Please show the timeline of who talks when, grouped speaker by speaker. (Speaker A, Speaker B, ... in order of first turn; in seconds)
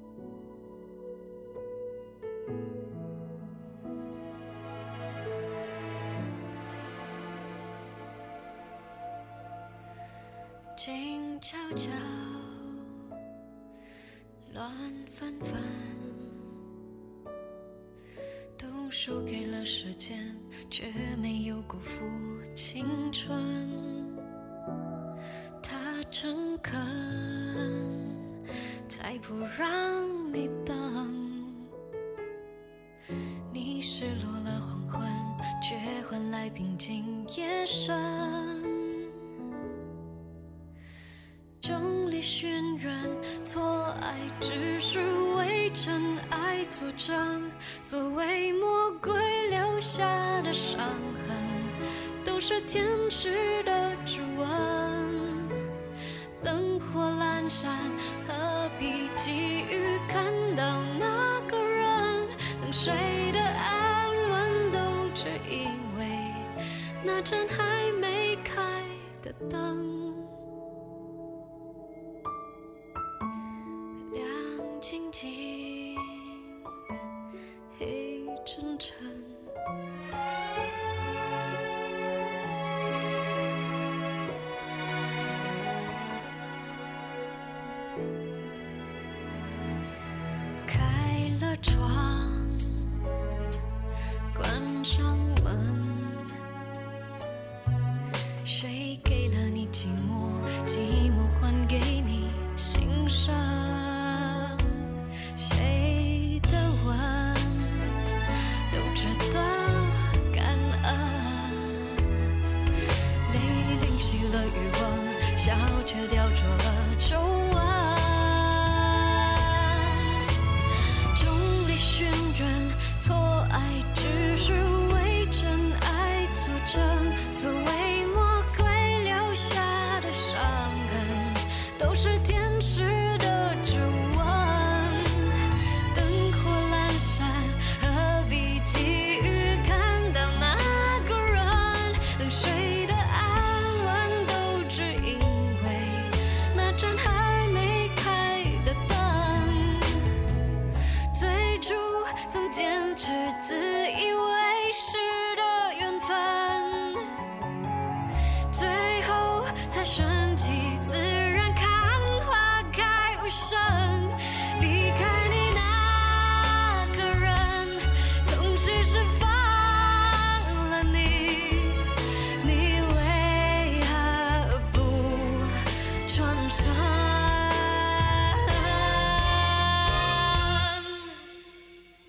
Speaker A: 10.8-12.8, 14.5-16.4, 18.6-24.1, 25.6-28.2, 28.9-31.7, 33.5-39.1, 41.6-55.6, 56.4-66.5, 67.0-70.3, 74.1-76.5, 77.7-79.5, 90.7-92.8, 94.3-96.3, 98.4-108.0, 108.7-112.0, 113.2-120.2, 121.1-150.1, 151.1-157.1, 158.5-181.2